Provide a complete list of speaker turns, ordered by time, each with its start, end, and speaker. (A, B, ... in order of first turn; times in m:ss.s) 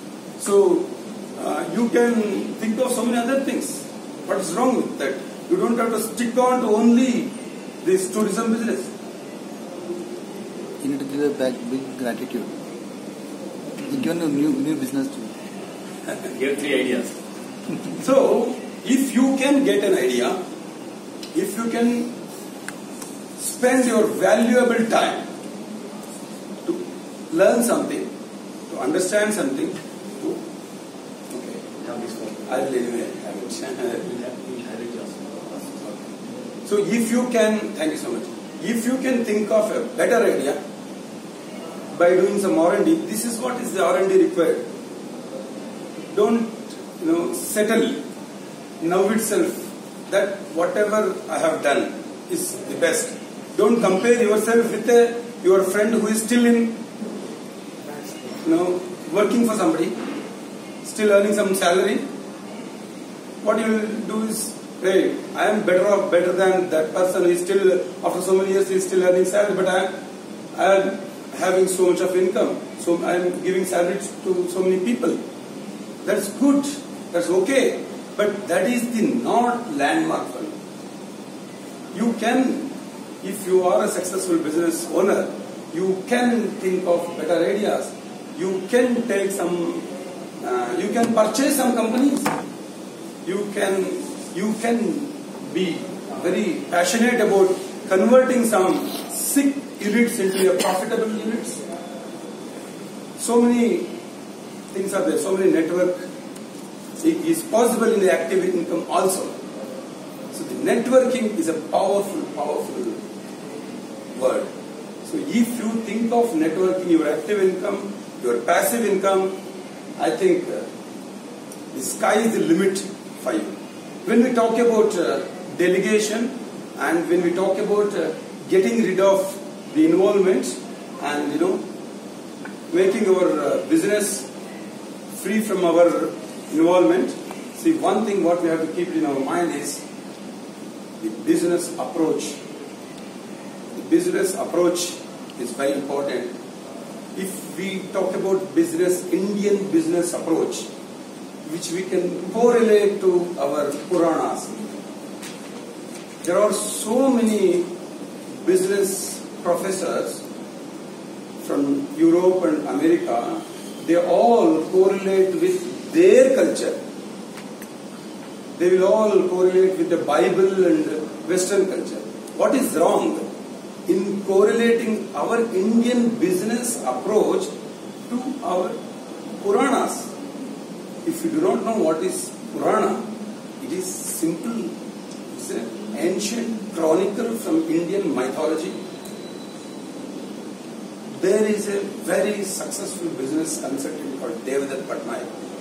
0:00.4-0:08.9 A
0:10.8-0:12.5 B
0:13.9-0:15.3 B
0:16.3-0:17.1 C
0:17.9-0:20.4 A
0:21.3-0:22.1 A
0:23.4-0:25.2 A
0:26.6-0:28.1 A
0:28.7-0:30.4 A
0:31.3-0:31.6 A
0:31.8-0:32.4 C
0:32.4-0:34.1 A
0:34.0-0:35.8 C
0:36.6-0:40.6 A
0:41.9-0:44.6 A
0:46.1-0:48.0 A
0:48.8-0:56.8 A
0:58.4-0:59.9 A
1:00.8-1:02.0 A
1:03.4-1:09.9 A
1:10.5-1:15.2 A
1:16.0-1:20.5 A
1:21.9-1:29.9 A
1:30.4-1:32.3 A
1:33.2-1:41.6 A
1:43.2-1:43.9 A
1:44.7-1:46.0 A
1:47.0-1:49.3 A
1:50.3-1:53.0 A
1:54.1-1:54.5 A
1:55.0-1:59.3 A
2:00.0-2:00.7 A
2:01.7-2:03.5 A
2:04.0-2:11.6 A
2:12.7-2:14.3 A
2:15.1-2:19.8 A
2:21.0-2:22.4 A
2:23.7-2:26.3 A
2:27.1-2:30.7 A
2:31.4-2:34.6 A
2:36.2-2:37.7 A
2:38.4-2:40.2 A
2:41.4-2:46.8 A
2:48.6-2:53.2 A
2:53.9-2:57.5 A
2:58.1-2:58.8 A
2:59.4-3:00.1 A
3:01.0-3:03.1 A
3:03.6-3:04.7 A
3:05.3-3:08.8 A
3:11.2-3:15.3 A